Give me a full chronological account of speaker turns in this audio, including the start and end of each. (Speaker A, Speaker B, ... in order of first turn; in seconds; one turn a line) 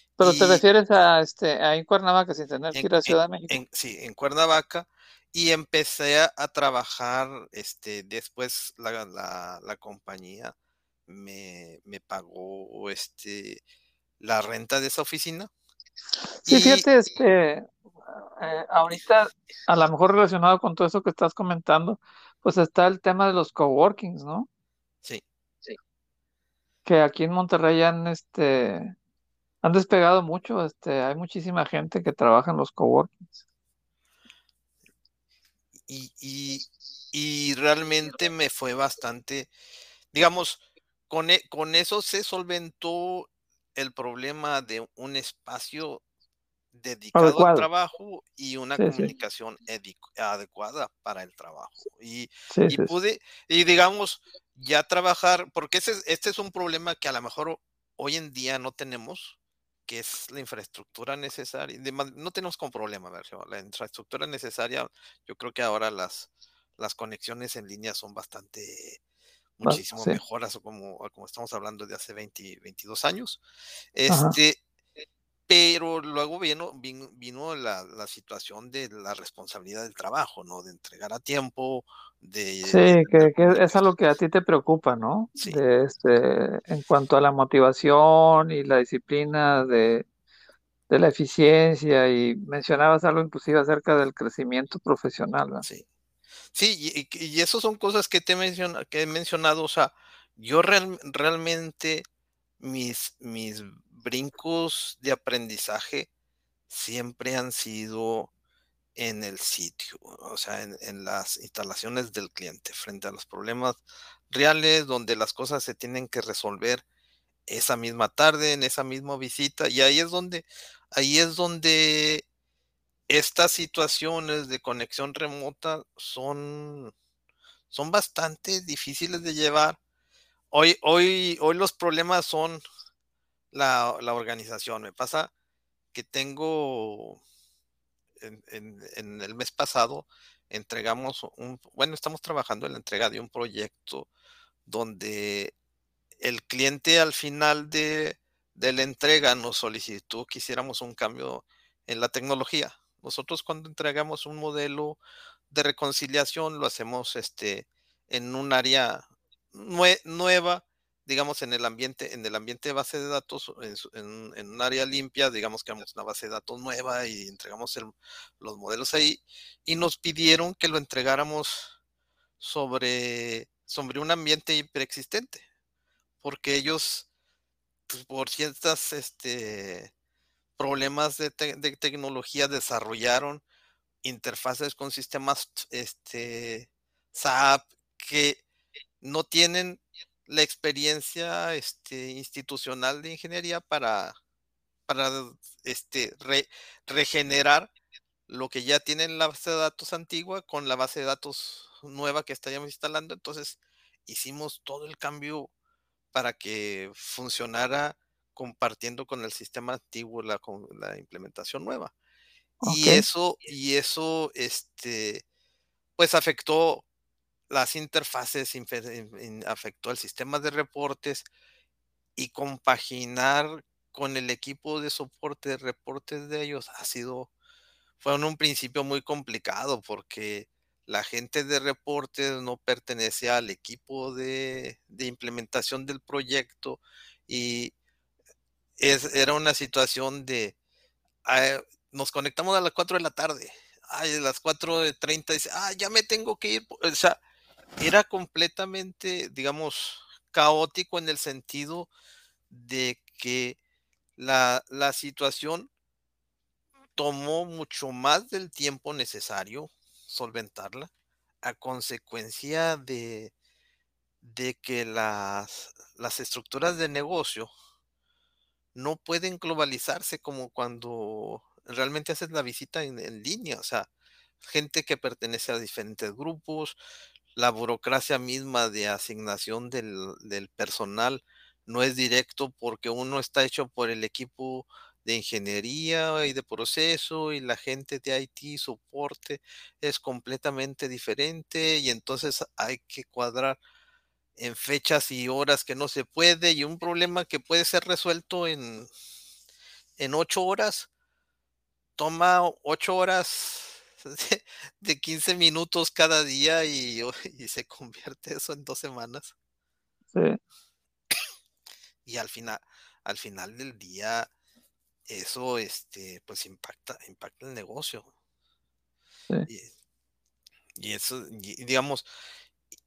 Speaker A: 0.2-3.6
Speaker B: 0.2-0.6
Speaker B: 2.7-10.6
Speaker B: 11.1-13.6
Speaker B: 14.2-15.5
Speaker A: 16.4-24.5
Speaker B: 16.5-16.9
Speaker A: 26.9-28.9
Speaker A: 29.6-33.2
Speaker B: 35.9-39.5
Speaker B: 40.1-46.0
Speaker B: 46.7-69.0
Speaker A: 47.1-47.7
Speaker A: 48.8-49.1
Speaker A: 52.5-52.9
Speaker B: 69.6-73.4
Speaker A: 69.6-70.2
Speaker B: 73.9-74.6
Speaker A: 74.1-74.4
Speaker B: 75.5-83.8
Speaker A: 82.6-90.1
Speaker A: 90.9-95.7
Speaker B: 96.5-102.0
Speaker B: 102.6-106.1
Speaker B: 106.7-108.3
Speaker B: 109.0-116.8
Speaker B: 117.5-122.2
Speaker B: 123.1-126.9
Speaker B: 127.7-129.8
Speaker B: 130.5-132.6
Speaker B: 133.5-135.3
Speaker B: 135.9-137.2
Speaker B: 138.2-144.1
Speaker B: 144.7-145.5
Speaker B: 146.2-155.0
Speaker B: 155.5-171.7
Speaker B: 172.4-175.4
Speaker B: 176.2-177.1
Speaker B: 177.9-179.9
Speaker B: 180.6-183.4
Speaker B: 184.0-188.4
Speaker B: 189.0-194.2
Speaker B: 194.9-197.7
Speaker B: 198.3-205.5
Speaker B: 206.1-211.9
Speaker A: 212.6-213.0
Speaker B: 212.7-215.2
Speaker B: 216.0-216.9
Speaker B: 217.5-221.3
Speaker B: 222.2-227.3
Speaker B: 228.0-237.7
Speaker B: 238.8-240.6
Speaker B: 241.2-247.2
Speaker B: 247.8-251.9
Speaker B: 252.5-253.6
Speaker B: 254.2-255.7
Speaker B: 257.0-260.9
Speaker B: 261.4-263.3
Speaker B: 264.2-267.5
Speaker B: 268.8-273.9
Speaker B: 274.4-276.8
Speaker B: 277.4-293.6
Speaker B: 294.4-298.9
Speaker B: 300.0-300.9
Speaker B: 302.0-309.3
Speaker A: 310.1-310.4
Speaker B: 312.1-314.3
Speaker B: 315.1-318.1
Speaker B: 320.8-322.1